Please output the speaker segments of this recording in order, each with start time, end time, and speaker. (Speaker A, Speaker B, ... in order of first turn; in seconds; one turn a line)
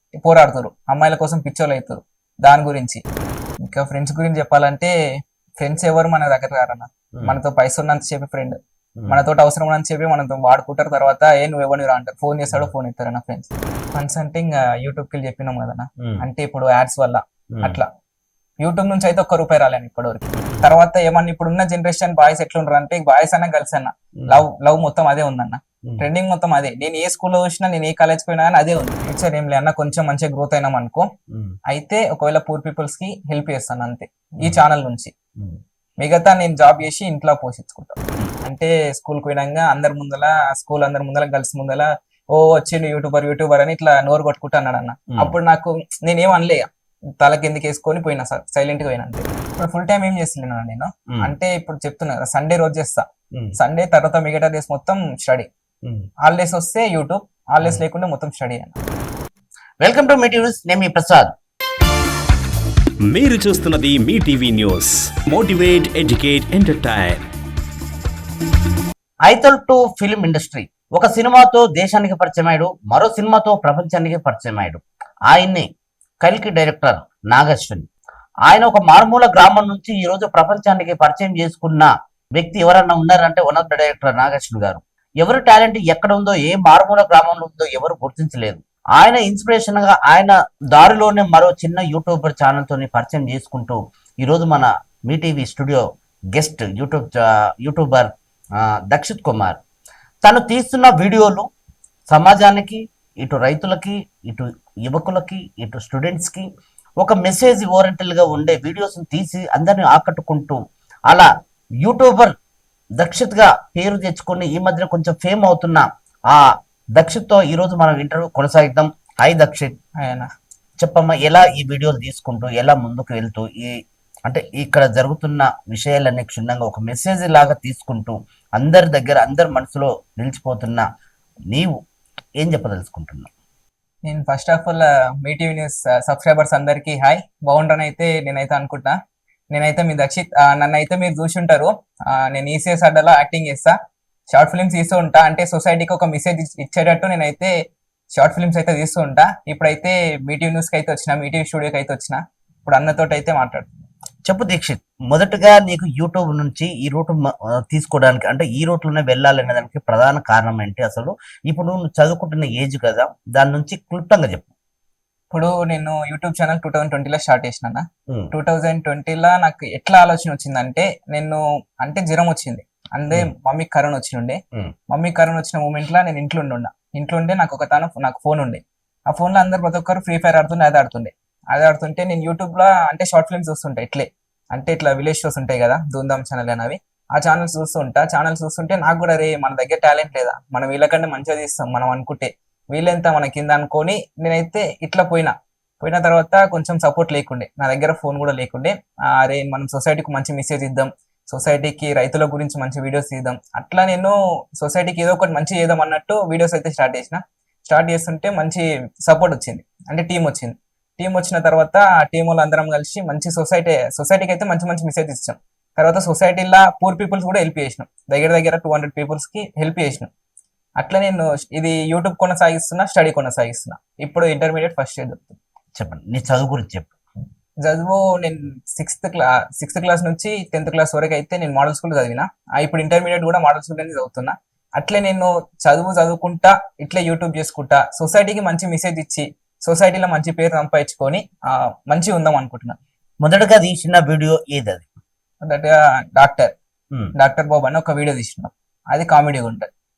Speaker A: 0.2-3.0
Speaker A: 3.6-5.0
Speaker A: 5.6-17.9
Speaker B: 9.0-9.2
Speaker B: 17.5-17.8
Speaker A: 18.6-31.1
Speaker B: 31.3-31.6
Speaker A: 31.7-35.1
Speaker A: 36.0-46.7
Speaker A: 47.2-53.1
Speaker B: 51.1-51.3
Speaker A: 53.6-55.5
Speaker A: 56.2-58.8
Speaker B: 59.8-61.3
Speaker C: 63.0-67.2
Speaker B: 69.3-75.7
Speaker B: 76.2-77.9
Speaker B: 78.5-99.6
Speaker B: 100.2-101.5
Speaker B: 102.1-106.5
Speaker B: 107.0-112.4
Speaker B: 113.0-119.8
Speaker A: 120.0-120.3
Speaker B: 120.8-130.9
Speaker B: 131.5-131.8
Speaker B: 132.4-133.3
Speaker A: 134.1-139.0
Speaker A: 139.5-143.8
Speaker A: 144.3-147.5
Speaker A: 148.2-153.7
Speaker B: 154.3-164.5
Speaker A: 165.3-220.1
Speaker B: 168.1-168.3
Speaker A: 220.8-225.4
Speaker B: 225.8-226.9
Speaker A: 227.6-242.8
Speaker B: 243.2-244.9
Speaker A: 245.4-246.5
Speaker A: 247.2-249.7